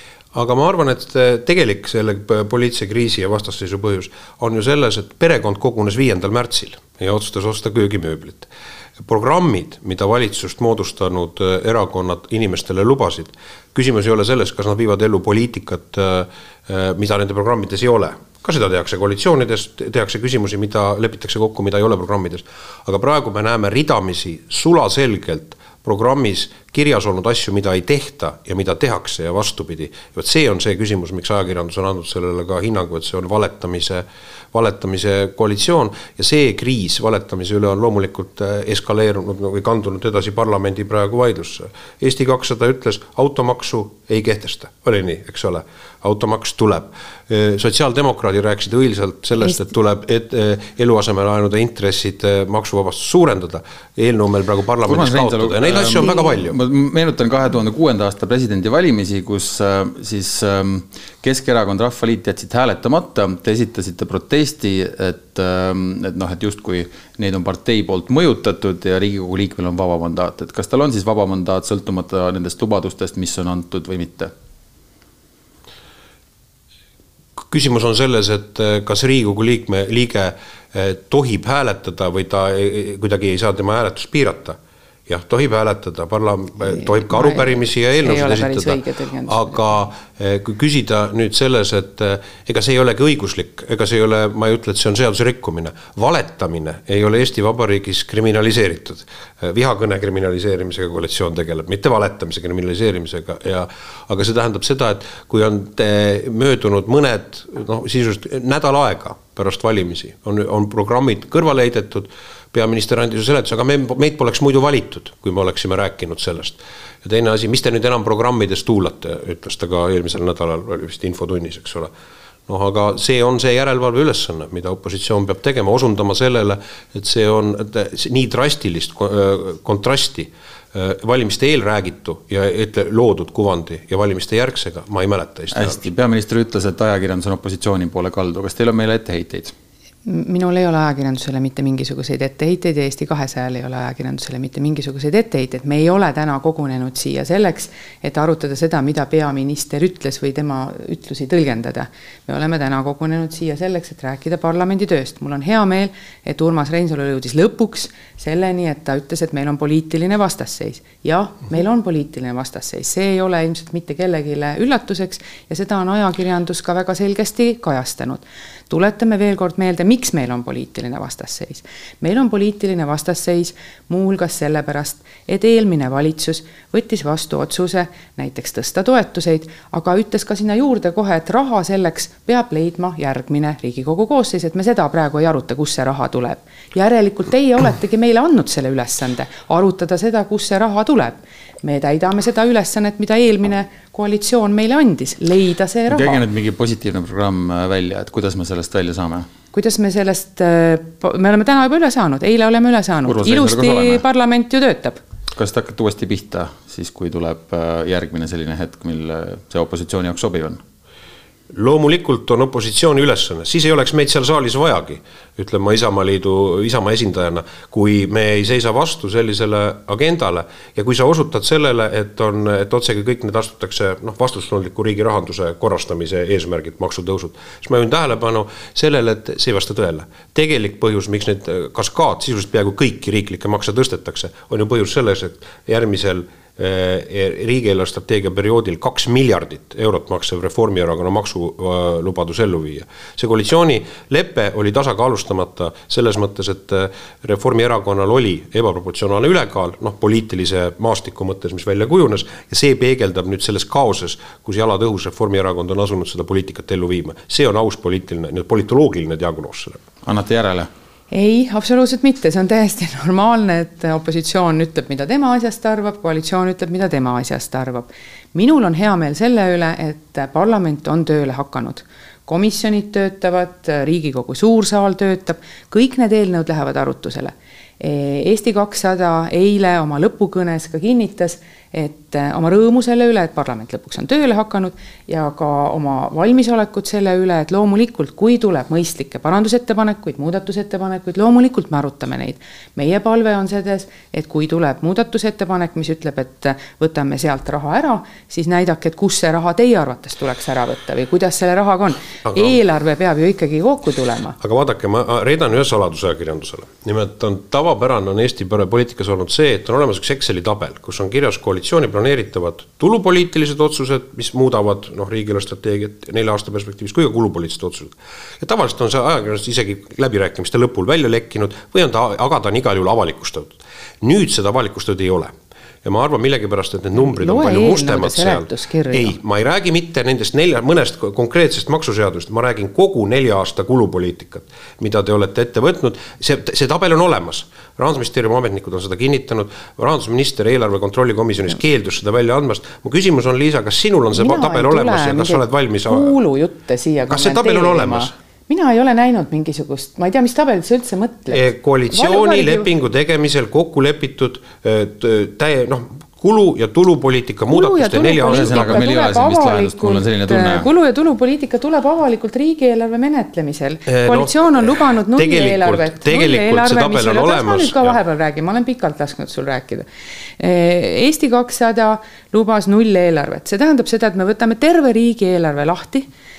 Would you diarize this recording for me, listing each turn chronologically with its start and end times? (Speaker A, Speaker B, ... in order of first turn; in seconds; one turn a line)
Speaker A: 0.3-56.6
Speaker B: 54.9-74.3
Speaker A: 77.4-121.9
Speaker C: 86.7-89.8
Speaker A: 122.5-135.8
Speaker B: 135.5-139.5
Speaker C: 140.1-196.2
Speaker B: 195.9-199.3
Speaker C: 199.5-205.0
Speaker B: 203.1-204.0
Speaker B: 205.4-210.6
Speaker A: 211.5-259.8
Speaker B: 260.0-260.7
Speaker C: 261.1-304.4
Speaker A: 302.3-302.6
Speaker A: 304.4-325.3
Speaker A: 325.8-346.2
Speaker C: 327.0-329.1
Speaker C: 344.1-352.7
Speaker A: 347.1-348.1
Speaker A: 351.3-358.9
Speaker C: 357.5-369.9
Speaker B: 358.3-360.7
Speaker A: 363.9-368.0
Speaker C: 370.4-376.1